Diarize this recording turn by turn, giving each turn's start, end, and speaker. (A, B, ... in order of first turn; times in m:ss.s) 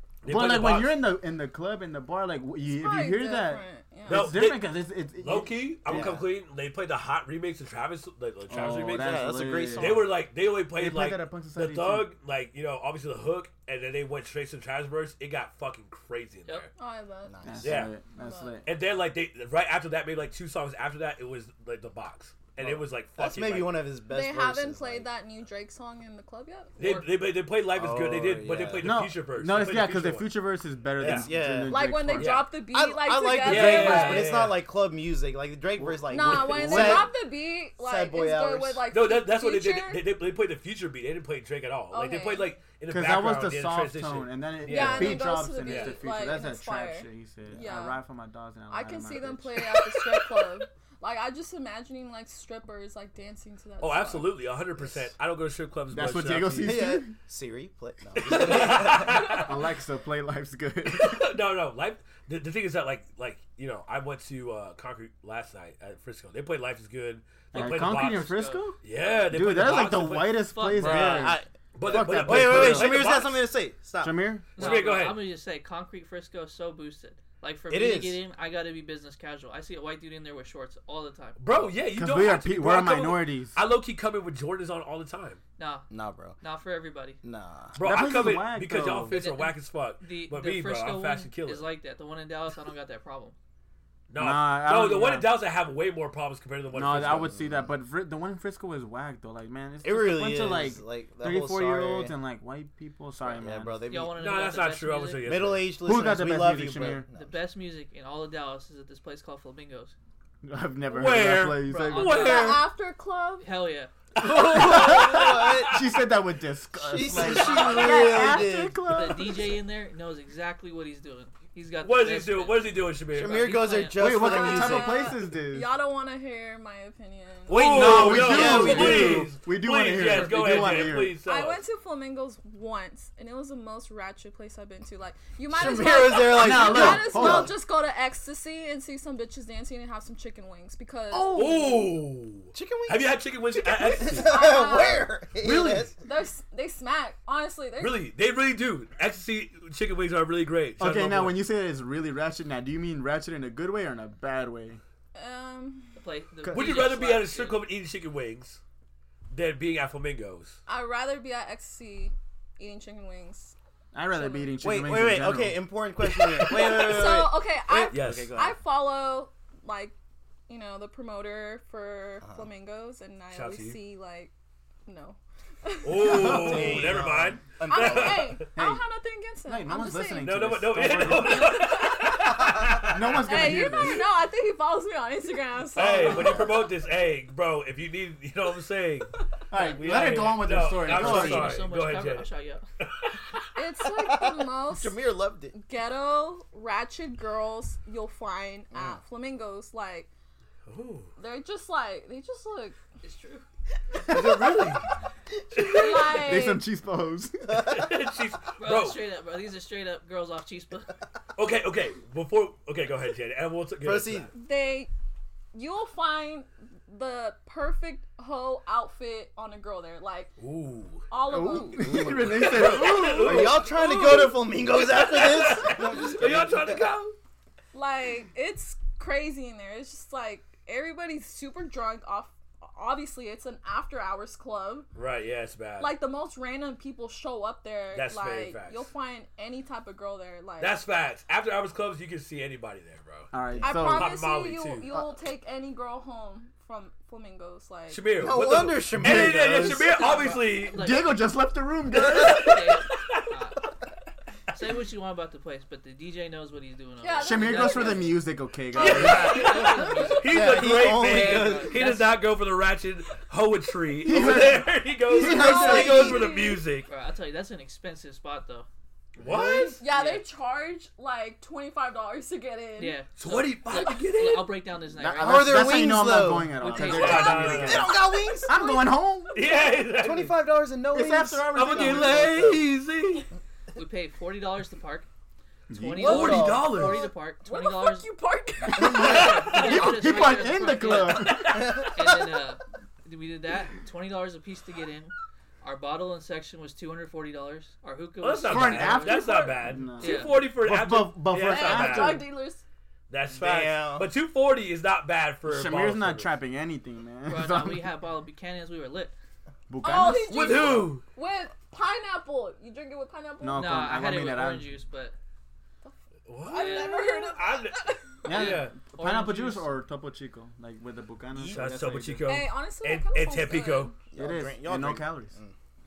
0:00.2-0:01.1 A
0:00.3-0:06.2 B
0:02.6-0:04.4 C
0:04.1-0:16.7 A
0:05.9-0:06.3 D
0:08.5-0:10.1 B
0:08.6-0:10.1 D
0:10.8-0:12.1 B
0:16.8-0:17.3 C
0:17.3-0:17.9 D
0:17.4-0:18.7 B
0:17.6-0:17.9 A
0:18.2-0:18.6 C
0:18.7-0:23.8 A
0:22.6-0:25.1 D
0:24.1-0:26.8 C
0:26.8-0:30.3 A
0:26.8-0:27.1 E
0:27.7-0:29.0 D
0:28.8-0:32.5 B
0:31.0-0:31.3 A
0:31.0-0:31.8 D
0:31.7-0:34.3 C
0:32.2-0:32.5 A
0:32.7-0:37.1 D
0:33.4-0:34.6 A
0:33.4-0:34.2 B
0:35.8-0:37.1 B
0:36.1-0:40.0 C
0:37.8-0:38.8 D
0:38.9-0:46.0 A
0:41.9-0:42.6 C
0:42.9-0:49.8 B
0:44.7-0:48.0 C
0:48.7-0:54.4 C
0:53.8-0:57.0 A
0:55.9-0:57.1 B
0:56.6-0:59.5 D
0:58.2-0:59.6 A
0:59.3-1:01.3 B
1:00.9-1:08.3 A
1:07.5-1:08.8 B
1:07.6-1:08.7 E
1:08.8-1:10.5 A
1:09.3-1:13.1 B
1:10.3-1:11.3 E
1:10.7-1:14.3 D
1:11.8-1:13.5 A
1:14.0-1:14.5 B
1:14.6-1:21.7 E
1:14.6-1:15.2 A
1:17.7-1:18.2 D
1:21.4-1:25.4 A
1:22.0-1:23.6 B
1:25.6-1:25.9 E
1:25.9-1:26.4 D
1:26.4-1:27.2 E
1:27.2-1:27.8 D
1:27.8-1:31.7 A
1:27.8-1:29.2 B
1:29.1-1:33.4 E
1:34.1-1:37.3 A
1:34.2-1:35.3 B
1:36.7-1:43.8 B
1:37.1-1:37.7 D
1:39.8-1:42.2 D
1:43.2-1:44.2 D
1:43.9-1:45.3 E
1:44.2-1:45.7 A
1:45.2-1:47.4 D
1:45.8-1:47.1 B
1:47.1-1:50.0 E
1:50.4-1:52.1 B
1:50.9-1:52.7 A
1:51.7-1:52.6 E
1:52.0-1:53.5 C
1:53.4-1:53.9 E
1:54.2-1:59.6 B
1:54.3-1:55.8 D
1:54.3-1:55.0 A
1:56.8-1:58.9 D
1:57.2-1:58.1 E
1:57.4-1:58.4 C
1:58.9-2:04.0 E
2:01.8-2:03.5 A
2:03.1-2:05.1 D
2:04.0-2:05.7 B
2:04.1-2:07.7 C
2:07.5-2:09.3 D
2:07.5-2:11.6 A
2:07.7-2:11.2 B
2:10.1-2:10.5 C
2:11.2-2:21.8 C
2:15.5-2:17.5 D
2:16.3-2:17.5 B
2:21.1-2:21.7 D
2:21.3-2:24.6 A
2:22.5-2:25.9 D
2:24.2-2:25.1 C
2:25.4-2:25.9 A
2:26.0-2:28.0 C
2:27.8-2:31.4 A
2:30.8-2:34.8 B
2:35.2-2:36.0 C
2:36.0-2:37.6 E
2:36.5-2:38.6 A
2:39.3-2:40.6 A
2:40.7-2:43.6 C
2:43.9-2:45.6 B
2:44.1-2:44.6 C
2:44.6-2:48.6 D
2:46.5-2:50.0 C
2:47.9-2:48.3 A
2:50.5-2:54.3 C
2:53.3-2:53.8 A
2:54.9-2:56.7 C
2:55.8-2:58.4 A
2:56.0-2:57.4 B
2:56.1-2:58.4 D
2:57.7-3:00.3 C
2:58.6-2:58.8 B
2:59.5-3:01.6 B
3:00.2-3:03.7 A
3:01.2-3:02.5 C
3:02.8-3:04.1 B
3:03.3-3:06.6 C
3:05.8-3:14.1 A
3:06.1-3:06.4 B
3:09.5-3:11.7 B
3:10.8-3:12.6 E
3:10.9-3:11.4 D
3:13.6-3:14.9 C
3:14.7-3:15.6 D
3:15.5-3:20.1 C
3:18.7-3:19.0 D
3:20.7-3:21.1 A
3:21.2-3:22.8 C
3:23.0-3:23.4 E
3:24.0-3:24.9 A
3:24.1-3:24.4 B
3:24.1-3:24.4 D
3:25.5-3:26.6 A
3:25.6-3:26.6 C
3:26.1-3:27.6 B
3:27.5-3:27.9 D
3:27.6-3:29.0 A
3:28.6-3:30.9 E
3:31.4-3:34.3 A
3:33.8-3:34.3 D
3:34.3-3:34.9 C
3:35.5-3:40.3 C
3:40.4-3:41.0 A
3:41.1-3:42.0 C
3:41.3-3:43.6 B
3:41.8-3:46.9 D
3:41.9-3:47.2 A
3:43.8-3:44.3 C
3:47.7-3:54.9 C
3:55.0-3:56.0 A
3:55.8-4:00.8 C
3:57.9-3:58.9 A
4:00.6-4:03.3 A
4:03.3-4:04.2 B
4:03.5-4:03.8 D
4:03.6-4:08.0 C
4:03.8-4:04.9 A
4:04.8-4:05.1 B
4:07.9-4:10.9 A
4:08.2-4:10.4 D
4:08.9-4:10.1 B
4:10.0-4:11.2 E
4:10.7-4:12.6 B
4:11.9-4:13.3 A
4:12.0-4:13.7 E
4:14.5-4:18.1 E
4:17.0-4:18.2 C
4:17.2-4:19.5 B
4:18.8-4:20.2 C
4:18.8-4:26.9 A
4:18.9-4:22.1 E
4:20.3-4:22.1 D
4:24.1-4:26.1 B
4:24.1-4:24.4 D
4:25.0-4:26.3 D
4:25.1-4:26.6 C
4:26.9-4:28.7 E
4:29.2-4:29.8 A
4:29.2-4:29.7 B
4:29.3-4:29.7 D
4:29.8-4:33.0 C
4:29.9-4:30.2 E
4:32.8-4:35.8 E
4:33.2-4:34.5 A
4:35.0-4:37.9 B
4:35.2-4:38.5 D
4:36.5-4:37.7 E
4:36.8-4:38.0 A
4:38.4-4:39.3 B
4:38.5-4:39.5 C
4:39.3-4:40.4 A
4:40.0-4:42.7 D
4:40.9-4:42.4 B
4:41.5-4:43.3 A
4:43.8-4:45.1 E
4:45.7-4:46.1 B
4:45.7-4:48.1 E
4:46.0-4:46.8 D
4:46.0-4:47.0 A
4:46.7-4:49.3 C
4:48.7-4:51.5 B
4:48.8-4:59.2 E
4:48.9-4:52.0 A
4:51.5-4:52.1 D
4:58.2-5:02.3 A
4:58.4-5:02.3 B
4:59.0-5:00.1 C
5:00.0-5:00.4 E
5:01.5-5:02.6 C
5:03.1-5:06.4 A
5:03.3-5:04.1 D
5:05.5-5:07.9 B
5:07.3-5:09.1 E
5:09.7-5:10.9 B
5:09.8-5:14.0 C
5:10.3-5:11.0 A
5:13.4-5:14.7 B
5:13.6-5:15.1 E
5:15.8-5:18.0 C
5:16.3-5:18.9 A
5:16.5-5:17.3 E
5:18.2-5:22.3 B
5:18.3-5:19.7 E
5:21.4-5:23.9 A
5:22.3-5:24.0 C
5:24.1-5:25.6 D
5:24.2-5:25.4 B